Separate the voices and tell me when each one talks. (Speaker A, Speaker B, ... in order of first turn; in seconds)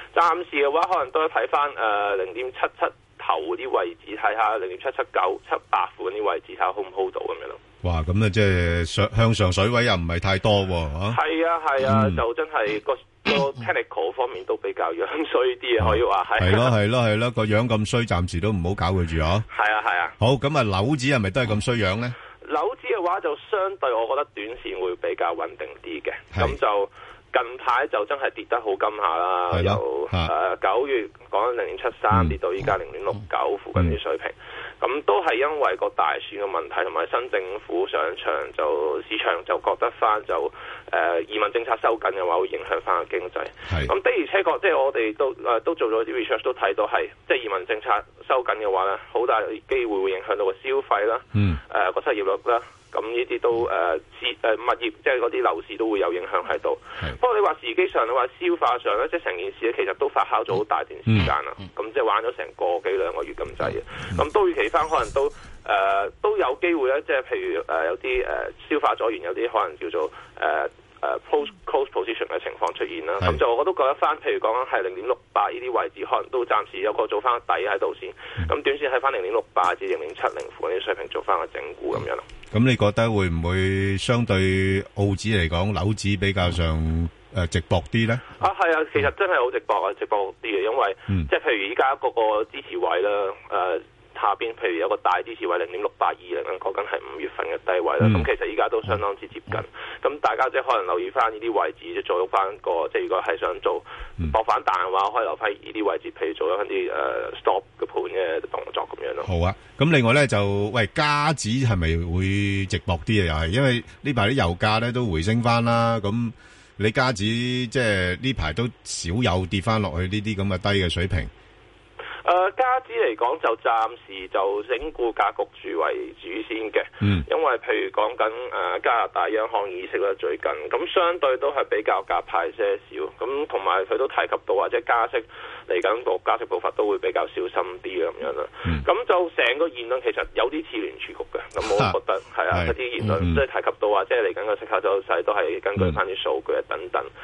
Speaker A: 0.1-7.6, 11.1-16.7, 19.5-20.1, 22.5-82.2, 88.4-109.3, 122.2-147.1
Speaker B: 7.8-11.2, 11.8-12.2, 15.8-19.4, 20.2-22.1, 29.5-30.3, 82.5-88.2, 109.2-121.3, 141.7-141.9, 142.5-143.4